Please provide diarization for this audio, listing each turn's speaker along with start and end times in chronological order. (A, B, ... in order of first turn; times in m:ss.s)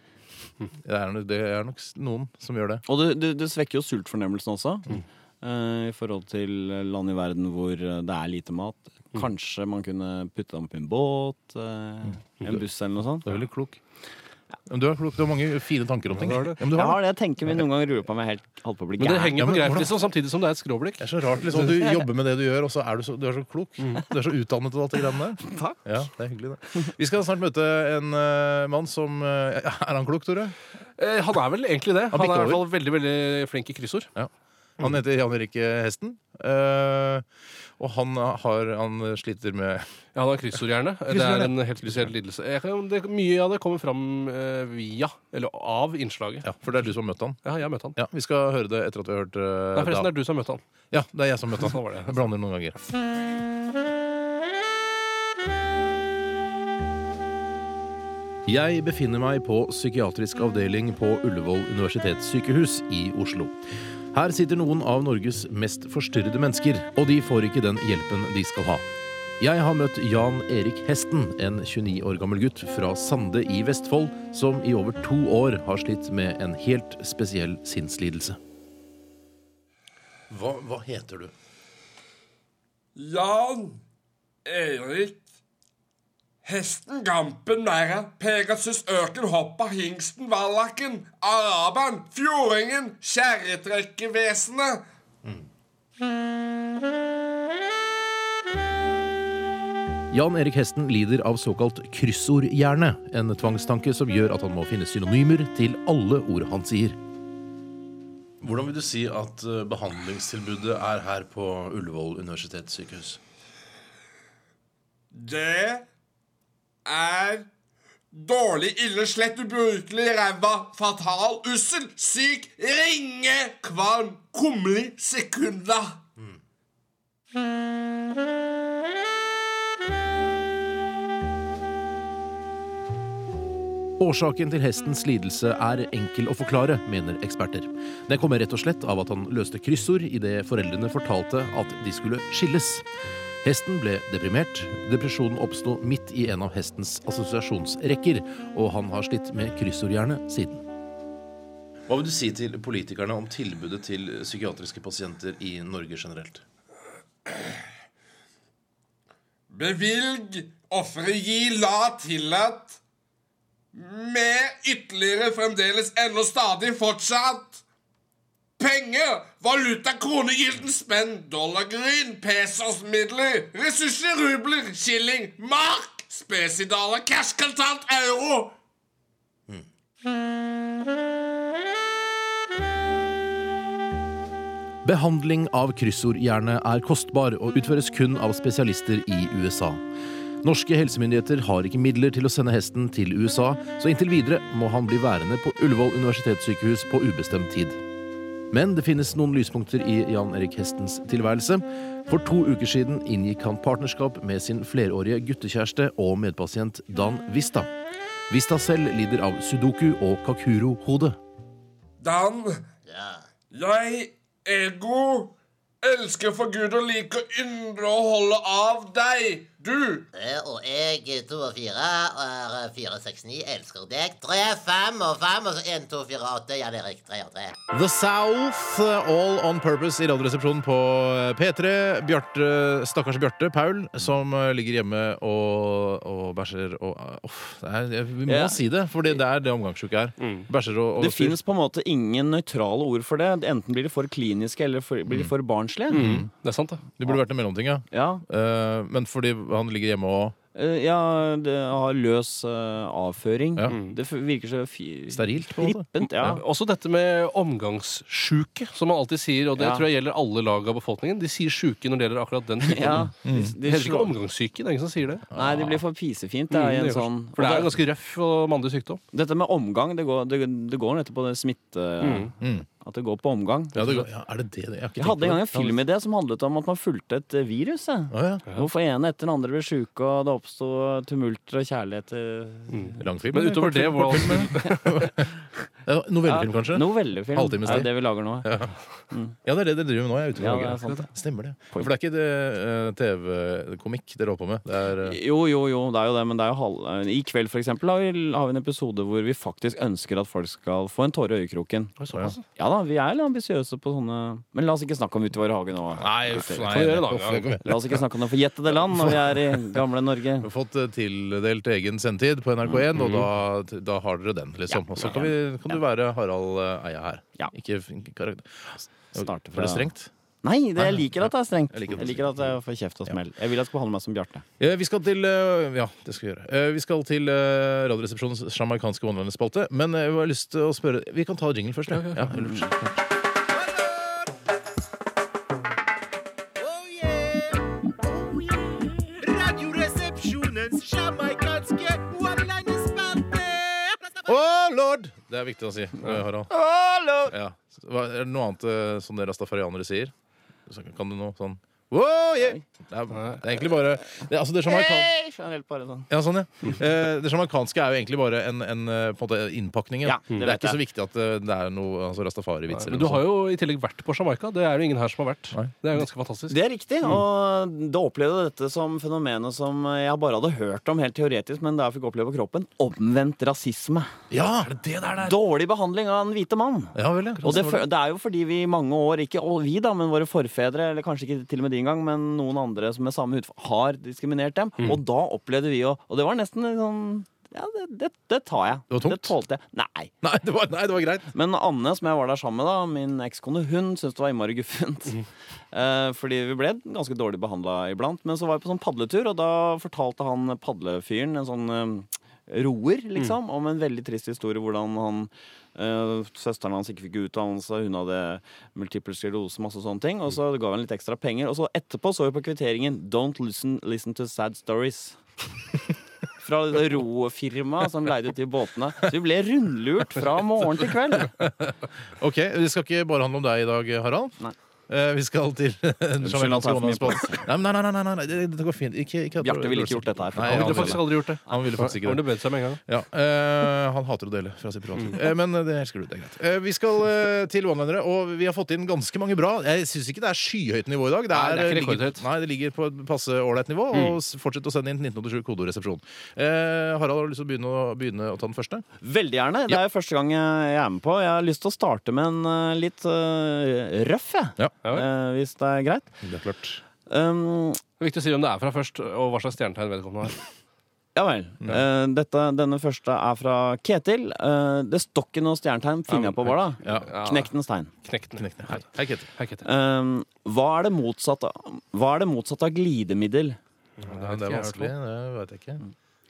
0:00.8-0:02.8 A
0:02.9-0:13.3 B
0:13.2-0:13.8 A
0:14.7-0:17.0 A
0:16.2-0:16.6 C
0:16.6-0:19.4 B
0:19.0-0:21.0 C
0:19.4-0:19.9 A
0:21.0-0:30.6 A
0:25.4-0:25.8 B
0:31.0-0:34.1 C
0:32.1-0:32.6 A
0:34.2-0:37.2 A
0:37.8-0:39.9 A
0:40.2-0:46.5 C
0:41.1-0:42.1 A
0:46.4-0:47.4 A
0:47.4-0:48.0 C
0:48.0-0:50.1 A
0:49.8-0:50.6 C
0:50.9-0:52.8 A
0:51.6-0:52.2 C
0:58.5-1:03.6 A
1:04.1-1:08.8 A
1:09.4-1:18.4 A
1:20.3-1:21.3 A
1:23.0-1:23.8 D
1:24.4-1:25.2 D
1:26.4-1:34.9 D
1:40.1-1:47.0 A
1:48.4-1:53.2 A
1:55.1-1:55.8 D
1:56.8-1:57.5 D
1:58.1-2:06.0 D
2:14.0-2:22.9 A
2:23.4-2:30.6 A
2:31.9-2:36.4 A
2:39.5-2:42.8 D
2:43.7-2:47.6 D
2:48.6-2:58.6 D
3:04.8-3:09.8 A
3:10.4-3:17.8 A
3:18.5-3:27.7 A
3:28.3-3:31.2 A
3:32.0-3:32.7 D
3:32.9-3:33.2 E
3:33.5-3:40.1 D
3:40.1-3:47.5 E
3:47.7-4:01.4 A
3:58.3-3:58.6 B
4:00.2-4:00.5 C
4:01.0-4:06.1 B
4:05.9-4:06.8 C
4:05.9-4:06.3 A
4:07.0-4:10.4 A
4:07.9-4:08.2 B
4:10.5-4:16.4 B
4:13.7-4:14.0 C
4:15.1-4:16.4 A
4:16.2-4:25.2 C
4:19.6-4:19.9 B
4:22.6-4:24.1 B
4:23.2-4:23.6 A
4:25.3-4:25.8 A
4:25.3-4:27.8 B
4:26.5-4:29.0 C
4:29.1-4:34.0 B
4:32.0-4:32.3 C
4:32.4-4:32.7 A
4:33.8-4:35.8 A
4:35.0-4:42.9 B
4:38.1-4:38.5 A
4:42.7-4:45.1 C
4:43.0-4:45.3 A
4:45.9-4:48.7 A
4:46.2-4:48.5 B
4:49.4-4:55.2 A
4:50.4-4:51.1 B
4:55.0-5:02.0 B
5:02.0-5:02.4 C
5:02.1-5:02.4 A
5:02.5-5:06.7 B
5:06.0-5:08.0 A
5:06.7-5:07.6 C
5:07.6-5:10.5 B
5:10.4-5:20.1 A
5:13.0-5:13.3 C
5:14.7-5:15.8 B
5:19.2-5:19.9 B
5:20.4-5:24.4 B
5:20.8-5:22.5 A
5:24.6-5:33.0 A
5:31.9-5:32.3 C
5:36.6-5:44.2 B
5:44.2-5:46.5 A
5:46.5-5:47.3 B
5:47.3-5:50.1 A
5:50.7-5:55.1 A
5:53.1-5:53.4 C
5:54.6-5:56.1 B
5:56.1-6:03.2 A
6:00.0-6:00.8 B
6:02.7-6:06.6 C
6:06.5-6:14.1 B
6:14.3-6:15.3 A
6:15.2-6:30.1 B
6:17.0-6:17.8 A
6:28.9-6:29.3 A
6:30.2-6:31.3 A
6:31.3-6:55.2 B
6:56.4-7:01.3 B
7:01.4-7:04.4 A
7:04.9-7:12.2 A
7:06.2-7:07.5 B
7:09.4-7:11.0 B
7:10.4-7:12.8 C
7:12.9-7:28.8 A
7:21.3-7:22.2 C
7:23.9-7:24.2 C
7:29.0-7:36.1 B
7:36.2-7:36.8 A
7:37.1-7:37.8 B
7:38.0-7:40.4 C
7:41.2-7:47.9 B
7:46.1-7:47.5 C
7:46.8-7:47.1 A
7:48.0-7:48.8 C
7:48.4-7:49.3 A
7:49.4-7:49.7 C
7:49.6-7:53.6 B
7:54.0-7:54.9 C
7:54.0-7:55.8 A